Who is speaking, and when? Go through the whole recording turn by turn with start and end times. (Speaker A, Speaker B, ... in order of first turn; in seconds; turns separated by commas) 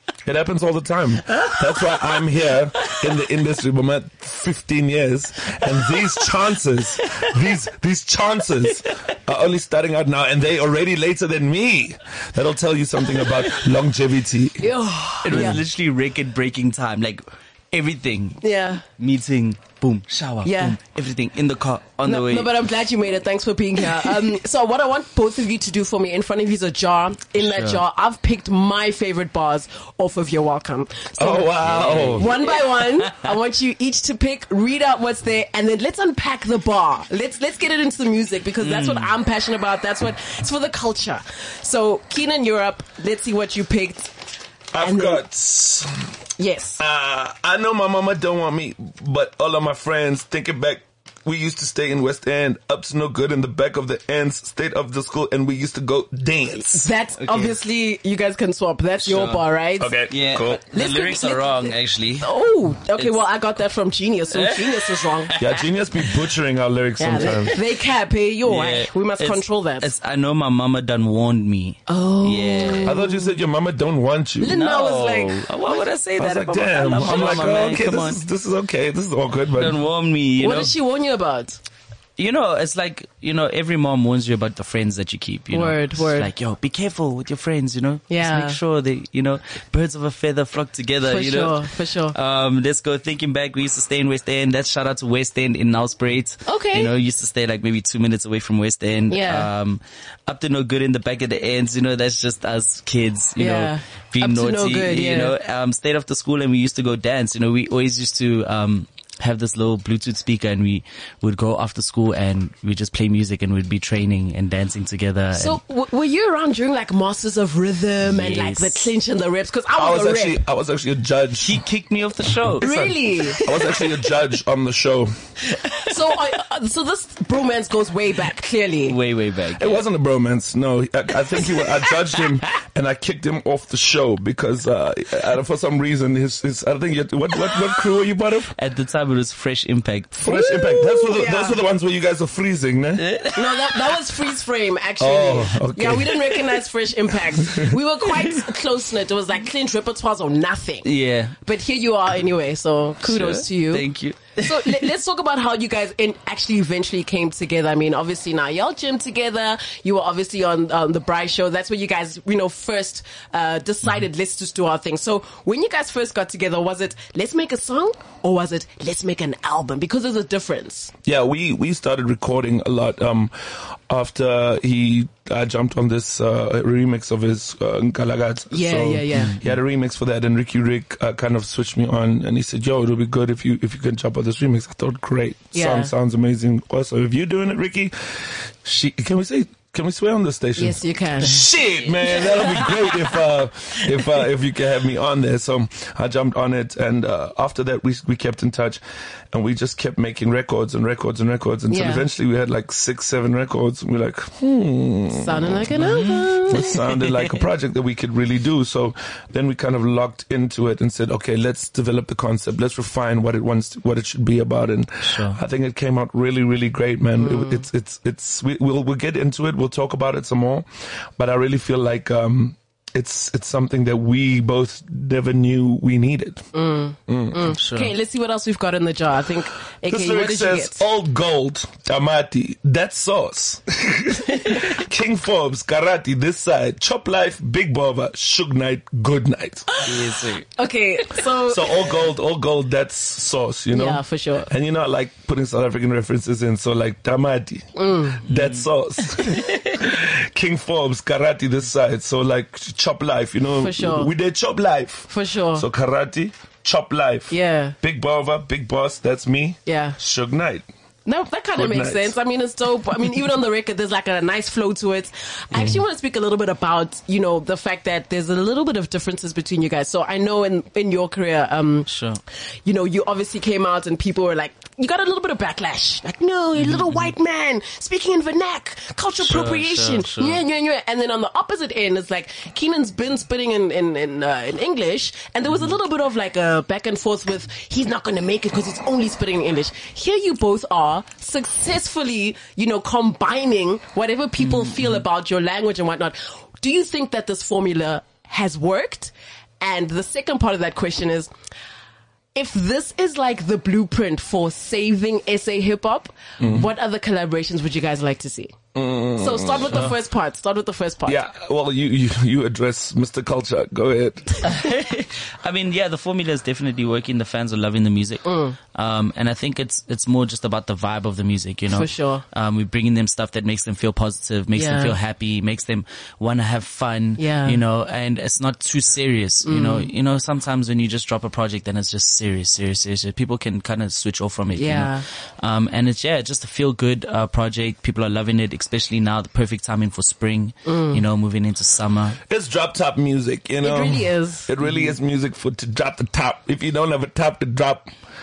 Speaker A: 0.2-14.7, Speaker B: 1.3-2.2, Speaker B: 5.7-6.3, Speaker B: 7.0-7.3, Speaker B: 13.2-13.6, Speaker C: 14.6-15.6, Speaker B: 15.2-22.5, Speaker A: 15.3-15.6, Speaker C: 18.4-18.8, Speaker C: 20.4-20.8, Speaker C: 22.0-44.1, Speaker B: 27.4-27.8, Speaker A: 31.2-32.4, Speaker B: 31.6-33.3, Speaker B: 38.6-39.1, Speaker A: 44.7-45.9, Speaker C: 44.8-45.2, Speaker C: 46.4-46.8, Speaker A: 46.8-56.9, Speaker C: 56.7-59.9, Speaker B: 57.2-57.5, Speaker B: 59.0-59.5, Speaker A: 59.8-60.6, Speaker B: 60.1-62.3, Speaker C: 60.7-65.3, Speaker B: 64.3-66.3, Speaker A: 65.4-67.5, Speaker C: 67.0-69.9, Speaker B: 67.1-67.6, Speaker B: 68.5-73.0, Speaker C: 71.9-73.3, Speaker A: 72.8-74.6, Speaker C: 74.4-75.5, Speaker B: 74.5-78.2, Speaker A: 76.2-79.8, Speaker C: 76.8-77.6, Speaker B: 79.5-80.7, Speaker C: 80.4-81.6, Speaker B: 82.2-115.6, Speaker C: 85.5-86.3, Speaker C: 88.1-88.6, Speaker C: 91.0-92.1, Speaker C: 96.5-96.9, Speaker C: 99.1-99.5, Speaker C: 103.4-105.3, Speaker C: 115.3-120.4, Speaker B: 118.0-118.9, Speaker A: 119.7-121.6, Speaker B: 121.4-122.8, Speaker A: 122.6-125.1, Speaker C: 122.6-124.1, Speaker C: 125.6-128.9, Speaker B: 128.8-129.8, Speaker A: 129.6-138.5, Speaker B: 131.6-132.2, Speaker B: 138.6-140.2, Speaker A: 140.2-143.0, Speaker C: 140.2-141.6, Speaker B: 143.0-144.0, Speaker C: 143.3-150.9, Speaker A: 145.0-146.4, Speaker A: 147.4-147.7, Speaker B: 148.2-148.4, Speaker B: 150.8-151.3, Speaker C: 151.4-170.9, Speaker B: 153.0-154.9, Speaker A: 171.0-198.8, Speaker C: 178.5-179.4, Speaker B: 179.1-179.4, Speaker C: 185.5-185.9, Speaker C: 190.6-191.4, Speaker B: 191.3-194.2, Speaker A: 199.3-205.7, Speaker C: 201.7-202.0, Speaker C: 205.1-206.7, Speaker B: 205.7-207.4, Speaker A: 206.5-226.4, Speaker B: 215.0-215.4, Speaker C: 217.2-217.6, Speaker C: 226.5-230.8, Speaker A: 227.1-227.4, Speaker B: 227.5-227.9, Speaker A: 229.8-239.7, Speaker C: 239.7-242.0, Speaker B: 239.8-240.4, Speaker A: 241.4-260.7, Speaker C: 243.7-244.5, Speaker C: 247.8-248.2, Speaker B: 248.3-249.8, Speaker C: 253.6-254.1, Speaker C: 255.1-255.6, Speaker C: 257.3-257.7, Speaker C: 259.6-260.0, Speaker C: 261.1-271.9, Speaker A: 261.6-262.1, Speaker B: 271.9-272.2, Speaker C: 272.6-301.3, Speaker B: 276.6-277.1, Speaker B: 279.2-280.4, Speaker B: 294.4-295.0, Speaker C: 302.3-308.5, Speaker A: 306.4-306.7, Speaker A: 308.7-309.8, Speaker C: 309.2-311.2, Speaker A: 311.1-314.5, Speaker B: 314.4-342.2, Speaker C: 318.2-318.6, Speaker C: 321.7-322.2, Speaker C: 324.6-324.9, Speaker C: 327.2-327.6, Speaker C: 329.4-329.9, Speaker C: 334.6-335.0, Speaker C: 340.6-341.0, Speaker A: 342.3-347.9, Speaker C: 343.6-344.5, Speaker B: 344.6-344.9